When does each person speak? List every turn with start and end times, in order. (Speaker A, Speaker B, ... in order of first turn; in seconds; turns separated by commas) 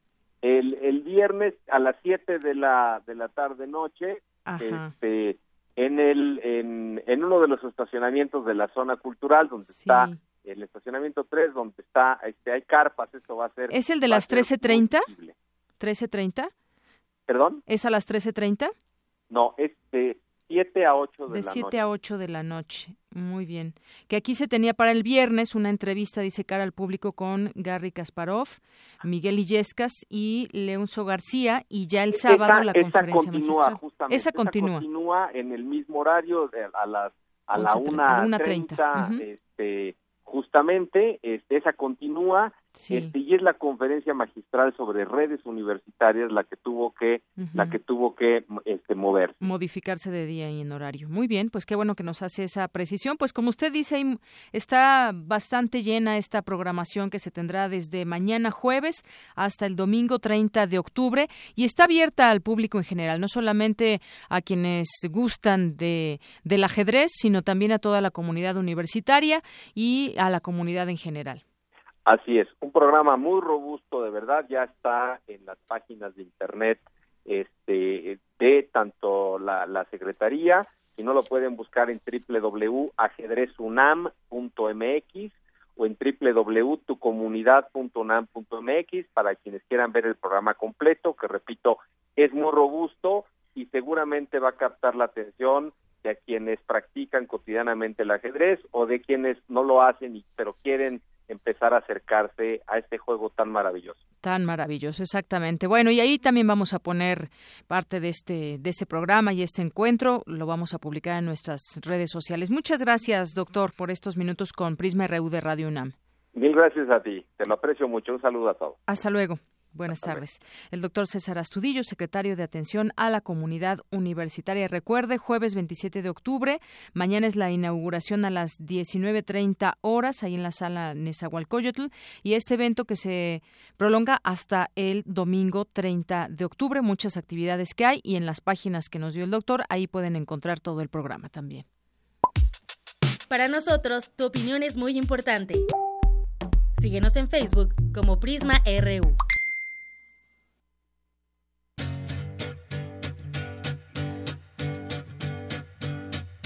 Speaker A: 0.4-15.3, Speaker B: 4.4-4.9, Speaker B: 9.7-10.2, Speaker B: 13.7-15.1, Speaker B: 15.8-16.5, Speaker A: 17.3-17.6, Speaker B: 17.7-18.7, Speaker A: 19.3-21.8, Speaker B: 21.3-34.9, Speaker A: 32.2-49.4, Speaker B: 37.5-39.2, Speaker B: 42.7-43.1, Speaker B: 47.4-47.8, Speaker B: 49.4-71.4, Speaker A: 72.0-104.0, Speaker B: 104.2-115.9, Speaker A: 116.3-118.8, Speaker B: 118.9-141.6, Speaker A: 119.9-120.2, Speaker C: 143.3-145.6, Speaker C: 146.8-149.2